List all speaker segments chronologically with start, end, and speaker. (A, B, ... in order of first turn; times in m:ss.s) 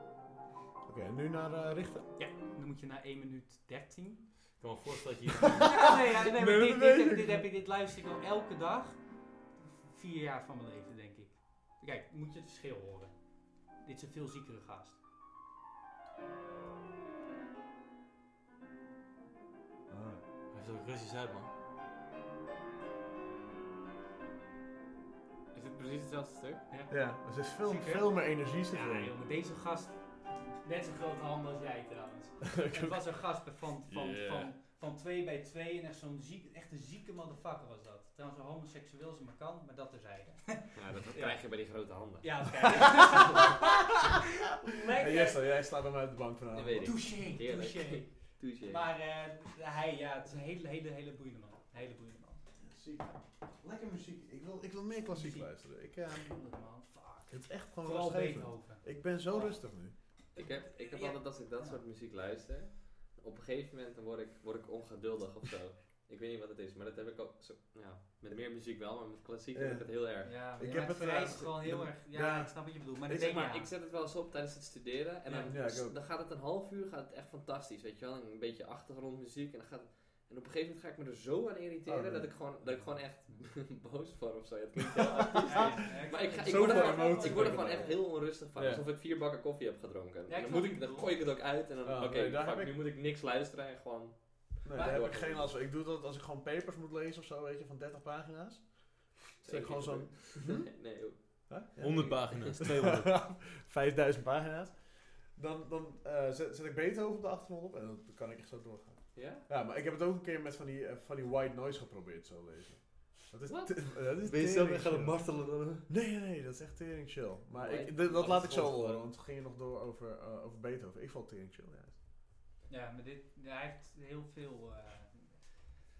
0:00.8-0:02.1 A
0:02.2-0:04.3 B
0:04.6-0:05.8 C
0:05.6-0:07.5 A
0:05.6-0:13.2 B
0:13.8-0:15.0 B
0:19.9-0:20.2 A
0:20.5-0:21.5 C
0:25.5-0:26.6 D
0:26.7-0:43.9 B
0:26.9-0:29.1 A
0:32.4-0:33.0 A
0:33.9-0:34.5 D
0:40.8-0:43.3 D
0:44.5-0:45.6 B
0:44.9-0:47.1 A
0:46.5-0:48.9 D
0:46.8-0:52.4 B
0:52.6-0:56.4 A
0:55.1-1:01.8 B
0:57.3-0:59.9 A
1:00.4-1:10.3 D
1:09.5-1:13.4 A
1:10.2-1:13.7 B
1:13.1-1:35.5 D
1:15.4-1:16.0 A
1:21.8-1:22.4 A
1:25.4-1:28.0 B
1:26.4-1:28.8 A
1:30.3-1:31.1 B
1:31.8-1:32.8 A
1:34.6-1:40.7 A
1:34.7-1:35.1 B
1:39.4-1:42.0 D
1:41.5-2:02.0 A
1:41.8-1:43.3 C
1:49.1-1:49.4 D
1:54.0-1:55.8 C
1:57.6-1:58.5 D
1:58.1-1:59.0 C
2:02.7-2:05.5 B